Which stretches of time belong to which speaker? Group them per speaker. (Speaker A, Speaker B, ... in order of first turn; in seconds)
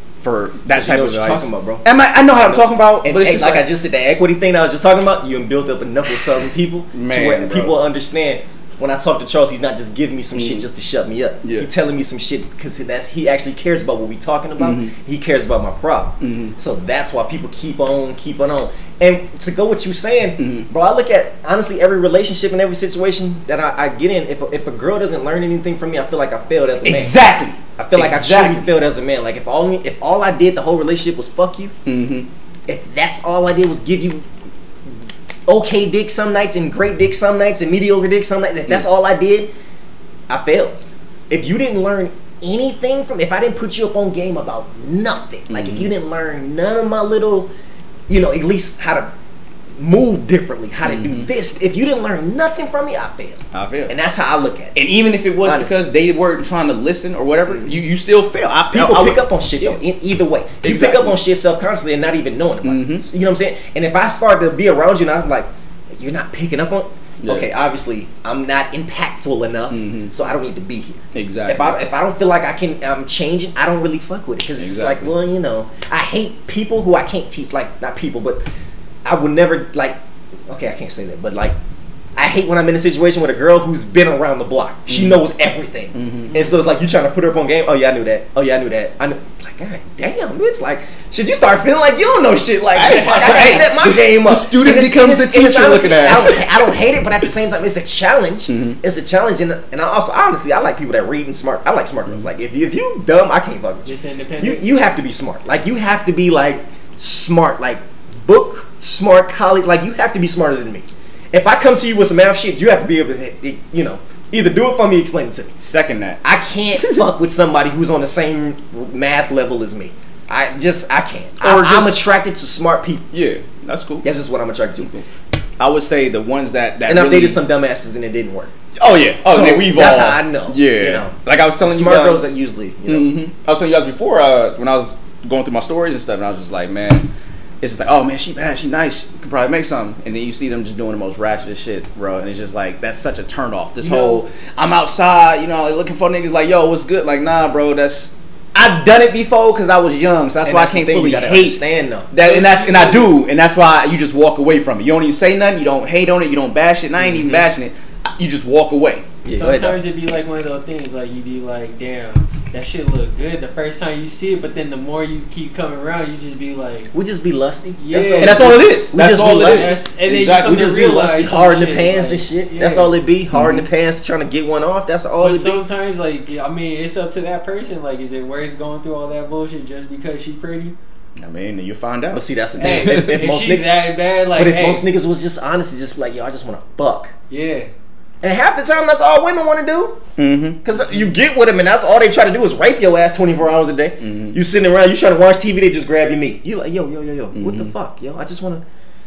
Speaker A: 0.2-3.7, 6.9-7.8, 10.3-10.7, 11.4-11.7, 14.6-14.9, 16.2-16.5, 20.4-20.7, 26.8-28.7, 31.9-32.3, 45.5-45.9, 50.8-51.3, 53.5-53.9, 54.7-59.8, 60.6-61.2, 62.6-63.0, 67.2-67.5, 69.7-70.1, 71.1-71.8, 74.6-75.1, 84.9-85.2, 85.9-86.3, 92.7-96.5, 98.5-98.8, 115.6-116.2, 121.4-122.0, 123.1-124.1, 125.6-127.4, 128.8-132.3, 132.9-151.6, 152.1-159.1, 168.2-170.8, 173.3-173.7, 181.2-183.1, 190.2-190.6, 194.0-194.4, 197.3-197.7
Speaker B: 0.7-27.2, 27.8-31.7, 32.7-34.3, 35.5-39.5, 40.3-47.5, 48.1-49.1, 49.8-54.8, 55.4-55.8, 57.5-57.8, 58.7-78.5, 79.0-81.6, 82.2-115.5, 116.2-123.0, 124.0-124.9, 126.9-128.5, 129.2-133.1, 150.4-152.1, 157.0-157.4, 159.2-159.8, 166.9-169.8, 170.4-175.6, 182.1-183.7, 184.3-187.1, 188.2-190.0, 190.6-198.6
Speaker C: 92.9-93.6, 103.8-104.7, 143.8-144.2, 152.2-153.1, 159.3-166.9, 167.8-168.5, 169.4-172.9, 175.2-180.7, 182.6-184.8, 187.3-187.7